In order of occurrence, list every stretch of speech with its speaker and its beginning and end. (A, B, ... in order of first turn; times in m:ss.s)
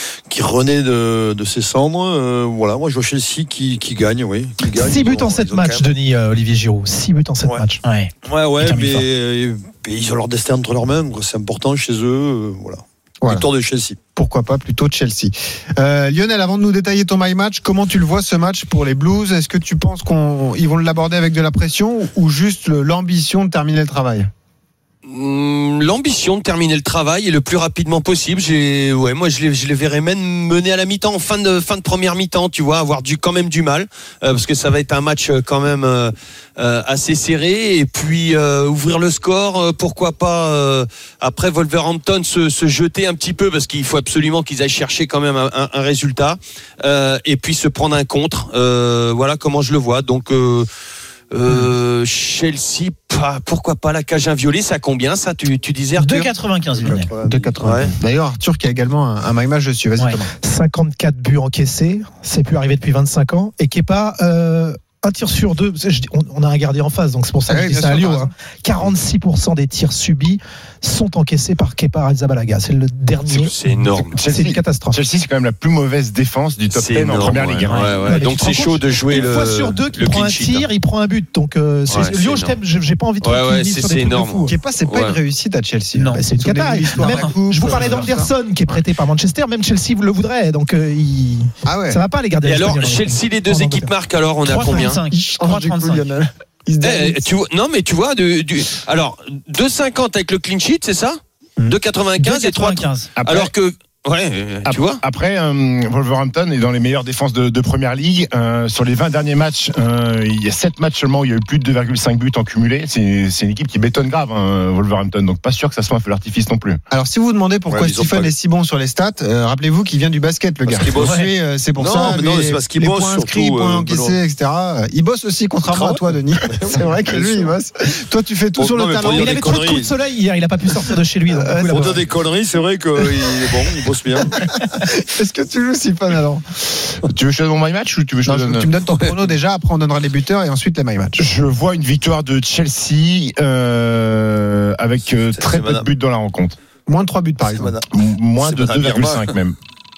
0:00.3-0:05.9 A
0:04.7-0:07.8 B
0:07.8-0:09.0 C
0:08.2-0:14.0 A
0:13.2-0:13.5 D
0:14.2-0:24.3 D
0:25.1-0:50.7 E
0:51.3-0:56.3 E
0:56.0-0:57.1 C
0:56.8-0:57.7 A
0:57.2-1:00.3 D
0:57.6-0:57.9 E
1:00.4-1:13.5 B
1:07.5-1:08.3 D
1:13.3-1:14.2 E
1:14.1-1:18.1 F
1:14.3-1:15.0 B
1:16.7-1:20.7 E
1:18.1-1:24.6 B
1:21.9-1:22.6 E
1:23.2-1:25.2 E
1:24.5-1:28.8 D
1:26.0-1:26.2 C
1:26.2-1:33.9 B
1:27.0-1:28.0 C
1:31.6-1:32.0 D
1:32.4-1:35.0 E
1:34.4-1:36.1 C
1:35.1-1:37.3 D
1:36.8-1:45.0 E
1:42.2-1:43.1 C
1:43.2-1:43.5 F
1:44.6-1:56.8 F
1:56.9-2:09.7 D
1:57.7-1:58.3 A
2:00.7-2:04.2 A
2:01.0-2:01.3 C
2:05.7-2:07.5 A
2:08.6-2:09.9 A
2:09.1-2:12.0 B
2:11.3-2:12.0 D
2:11.6-2:14.5 A
2:14.4-2:16.4 D
2:17.0-2:18.7 F
2:18.3-2:21.3 D
2:21.2-2:26.6 F
2:25.2-2:25.9 A
2:26.9-2:27.7 D
2:27.5-2:29.4 A
2:27.9-2:29.6 F